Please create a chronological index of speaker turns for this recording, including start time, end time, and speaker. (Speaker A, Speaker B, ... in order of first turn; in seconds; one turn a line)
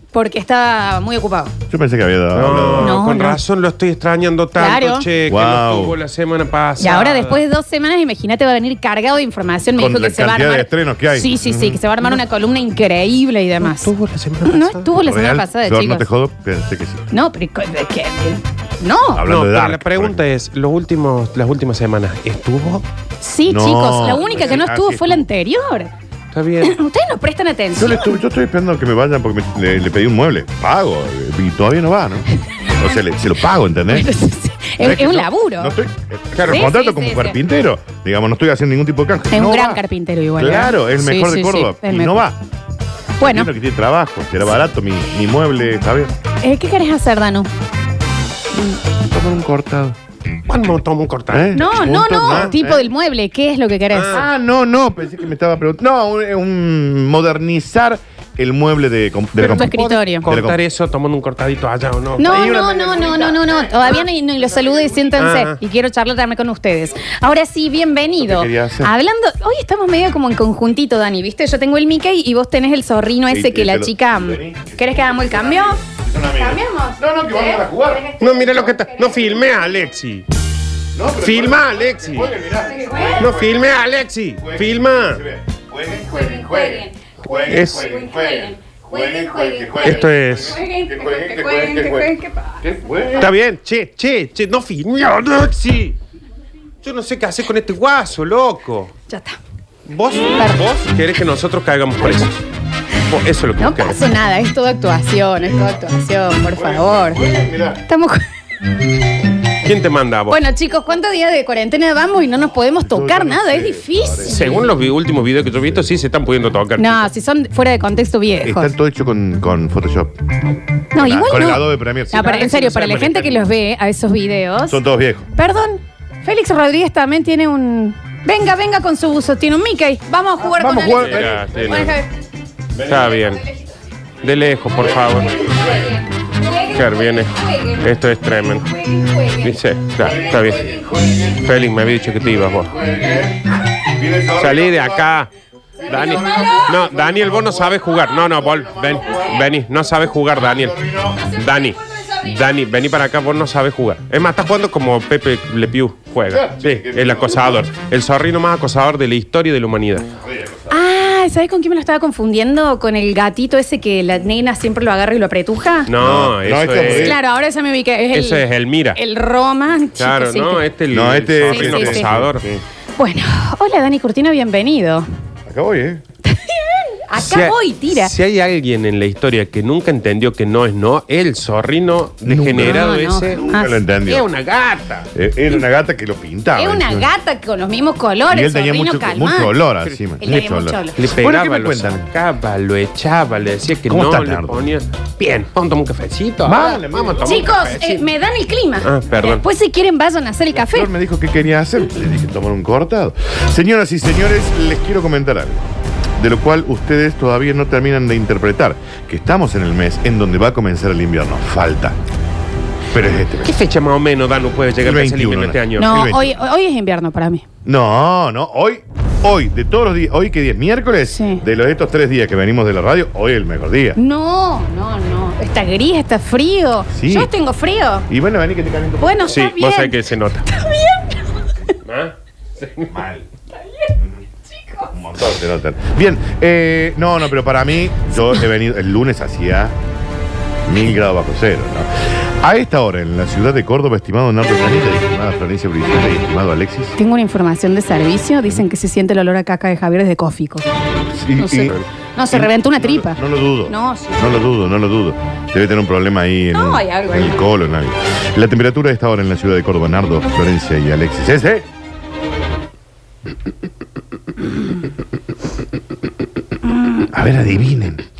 Speaker A: 0.1-1.5
Speaker B: 1.7-3.0
Speaker C: 2.3-7.4
Speaker A: 2.8-3.4
Speaker A: 4.5-5.1
Speaker B: 5.3-6.0
Speaker A: 6.8-13.9
Speaker B: 9.8-11.8
Speaker C: 13.6-14.9
Speaker A: 14.4-16.1
Speaker B: 14.9-17.1
Speaker A: 17.1-19.2
Speaker B: 19.1-20.2
Speaker C: 19.2-22.8
Speaker A: 23.2-25.9
Speaker B: 23.5-25.2
Speaker C: 26.3-26.8
Speaker A: 26.6-28.1
Speaker B: 27.7-34.1
Speaker A: 33.9-35.8
Speaker B: 34.8-39.8
Speaker C: 36.3-36.7
Speaker A: 36.5-37.4
Speaker A: 39.3-42.2
Speaker B: 40.4-42.4
Speaker A: 43.2-43.5
Speaker B: 43.2-46.1
Speaker A: 46.4-47.5
Speaker B: 49.0-50.0
Speaker C: 50.5-51.6
Speaker B: 51.3-52.9
Speaker A: 51.5-54.2
Speaker C: 53.9-54.2
Speaker B: 54.1-59.7
Speaker C: 59.4-62.4
Speaker A: 59.4-60.3
Speaker B: 60.2-60.6
Speaker A: 62.2-75.8
Speaker B: 62.2-65.2
Speaker C: 65.2-65.6
Speaker B: 68.2-68.9
Speaker B: 73.3-78.1
Speaker A: 76.3-79.6
Speaker C: 78.2-80.2
Speaker B: 80.9-83.7
Speaker C: 81.2-82.3
Speaker A: 82.6-83.3
Speaker C: 83.2-85.2
Speaker B: 84.4-93.3
Speaker A: 85.9-92.6
Speaker C: 87.5-87.9
Speaker C: 89.8-90.6
Speaker C: 93.2-95.9
Speaker C: 96.8-98.9
Speaker A: 99.1-99.4
Speaker C: 99.8-102.4
Speaker A: 100.3-100.6
Speaker C: 103.0-104.0
Speaker A: 103.6-107.2
Speaker B: 106.5-107.8
Speaker A: 107.8-108.2
Speaker C: 109.6-110.4
Speaker A: 110.3-114.6
Speaker B: 112.8-114.7
Speaker C: 114.2-117.1
Speaker A: 116.8-118.7
Speaker B: 118.4-120.1
Speaker A: 120.9-124.8
Speaker B: 120.9-122.4
Speaker C: 122.1-123.4
Speaker B: 124.7-125.3
Speaker A: 125.3-132.1
Speaker B: 130.4-131.6
Speaker C: 130.9-131.9
Speaker B: 132.8-133.0
Speaker C: 132.8-133.4
Speaker C: 134.2-135.4
Speaker B: 134.8-135.9
Speaker A: 135.2-137.9
Speaker C: 136.7-138.7
Speaker A: 138.4-139.6
Speaker C: 139.4-140.7
Speaker B: 140.0-141.5
Speaker C: 141.3-142.8
Speaker B: 142.4-145.2
Speaker C: 144.3-145.3
Speaker A: 145.8-146.8
Speaker B: 145.8-149.5
Speaker C: 145.9-160.1
Speaker B: 150.5-151.2
Speaker A: 151.2-152.3
Speaker B: 156.3-157.6
Speaker B: 160.2-160.8
Speaker A: 160.7-165.9
Speaker C: 165.9-167.2
Speaker B: 166.0-167.2
Speaker A: 166.8-170.6
Speaker C: 168.1-169.0
Speaker C: 170.0-172.4
Speaker B: 170.9-172.6
Speaker A: 171.5-172.1
Speaker A: 173.0-175.1
Speaker B: 175.4-176.0
Speaker A: 176.2-178.1
Speaker C: 177.2-183.4
Speaker B: 182.2-184.3
Speaker A: 182.6-183.8
Speaker C: 184.1-185.1
Speaker B: 185.1-187.1
Speaker A: 186.6-189.5
Speaker B: 188.3-192.1
Speaker A: 190.2-191.0
Speaker C: 190.9-198.0
Speaker B: 193.9-194.7
Speaker B: 196.4-197.6
Speaker A: 197.2-200.9
Speaker C: 198.8-199.4
Speaker B: 200.6-205.7
Speaker B: 206.2-211.9
Speaker B: 212.9-213.6
Speaker C: 213.4-216.0
Speaker B: 214.8-216.4
Speaker A: 215.8-217.4
Speaker B: 217.6-224.0
Speaker A: 221.1-221.4
Speaker A: 223.9-228.1
Speaker B: 226.9-227.3
Speaker B: 228.1-229.3
Speaker A: 229.0-231.8
Speaker C: 229.3-230.5
Speaker C: 231.8-232.9
Speaker B: 232.9-233.3
Speaker A: 233.6-234.0
Speaker A: 234.5-234.9
Speaker B: 234.9-239.8
Speaker B: 240.7-246.9
Speaker A: 247.0-250.7
Speaker B: 251.0-251.8
Speaker A: 251.3-254.3
Speaker B: 252.3-261.6
Speaker A: 256.5-257.4
Speaker A: 266.7-267.0
Speaker B: 267.1-268.0